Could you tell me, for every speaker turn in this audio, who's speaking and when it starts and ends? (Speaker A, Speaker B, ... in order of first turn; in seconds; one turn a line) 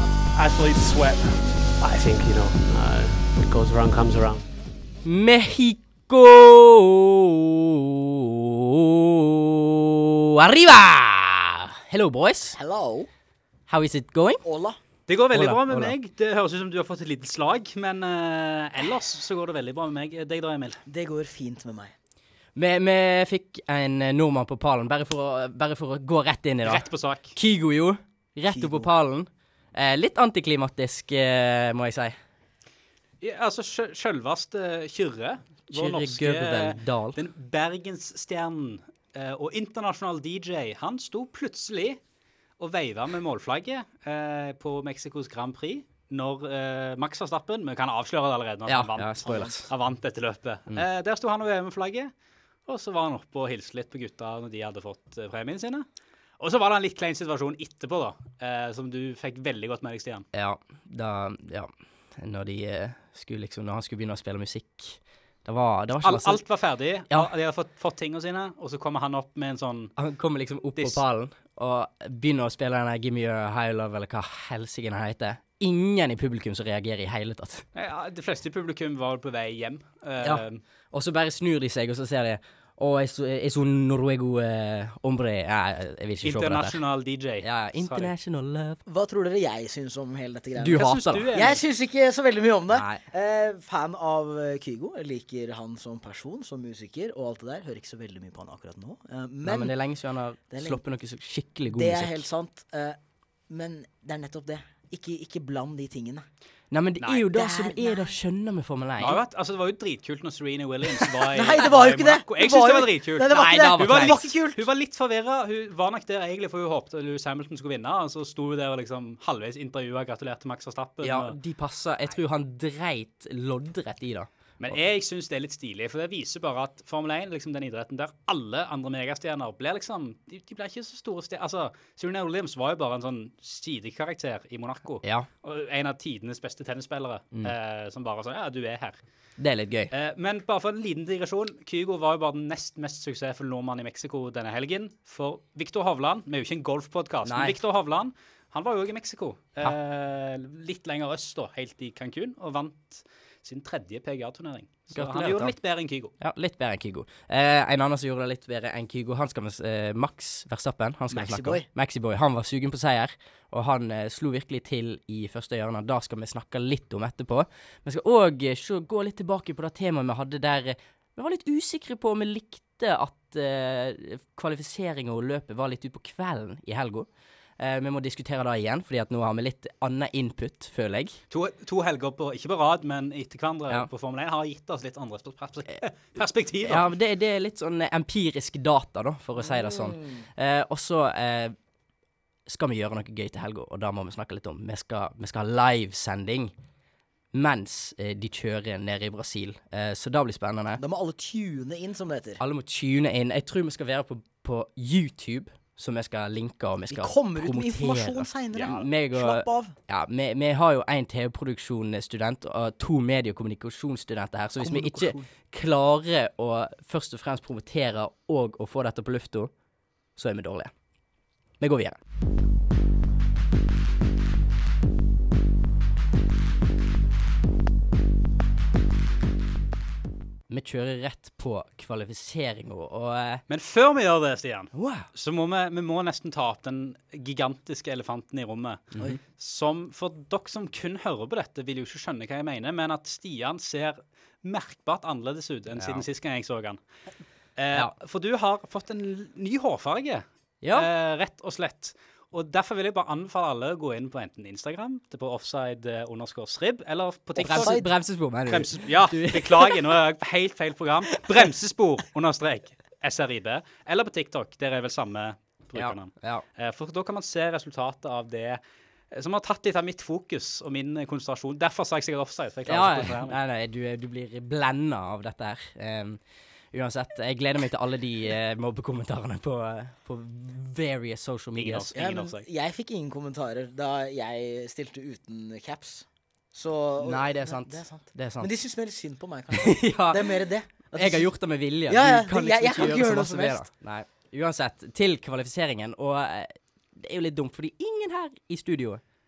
Speaker A: 0.3-1.4
Speaker B: 1.8-4.5
Speaker C: 5.0-12.6
Speaker D: 12.5-13.1
Speaker C: 13.7-14.4
Speaker D: 14.4-14.8
Speaker A: 15.1-20.8
Speaker C: 15.3-15.9
Speaker D: 20.9-21.9
Speaker C: 22.6-32.2
Speaker A: 26.6-27.4
Speaker D: 28.5-28.9
Speaker A: 33.2-42.0
Speaker C: 35.7-37.2
Speaker A: 42.6-52.1
Speaker C: 48.7-49.7
Speaker D: 49.2-49.5
Speaker A: 52.7-55.9
Speaker A: 56.4-60.3
Speaker C: 60.3-66.4
Speaker A: 66.0-69.9
Speaker C: 70.0-77.7
Speaker A: 70.8-71.0
Speaker A: 77.7-80.6
Speaker C: 80.2-86.8
Speaker A: 86.2-88.1
Speaker C: 87.4-88.8
Speaker D: 88.8-99.7
Speaker C: 90.5-91.3
Speaker A: 90.7-91.6
Speaker C: 92.7-93.0
Speaker C: 99.4-102.3
Speaker D: 100.5-100.8
Speaker D: 101.7-103.0
Speaker D: 103.5-106.2
Speaker C: 106.7-109.2
Speaker D: 107.3-108.2
Speaker A: 109.0-121.4
Speaker D: 111.3-114.6
Speaker C: 113.3-114.2
Speaker C: 121.0-124.8
Speaker A: 124.6-139.0
Speaker C: 135.0-135.3
Speaker C: 139.4-139.9
Speaker A: 139.9-156.1
Speaker C: 147.2-147.6
Speaker C: 154.9-155.6
Speaker C: 156.2-177.1
Speaker D: 161.1-161.7
Speaker C: 177.6-181.2
Speaker A: 181.3-186.9
Speaker C: 186.6-191.6
Speaker D: 189.6-190.2
Speaker C: 192.5-196.5
Speaker C: 197.3-200.8
Speaker D: 200.8-202.4
Speaker C: 202.4-219.5
Speaker D: 206.9-209.8
Speaker D: 214.6-215.3
Speaker C: 220.2-220.7
Speaker C: 221.6-222.0
Speaker C: 230.5-233.4
Speaker A: 233.5-238.8
Speaker C: 234.7-235.1
Speaker A: 239.4-246.8
Speaker C: 245.8-246.1
Speaker A: 247.6-257.8
Speaker C: 250.6-250.9
Speaker D: 257.4-257.9
Speaker C: 257.4-259.8
Speaker A: 258.5-273.4
Speaker C: 265.8-266.4
Speaker C: 272.7-276.2
Speaker C: 276.7-281.9
Speaker A: 281.6-282.4
Speaker D: 281.9-291.3
Speaker C: 287.0-288.5
Speaker C: 289.5-299.0
Speaker D: 291.9-293.6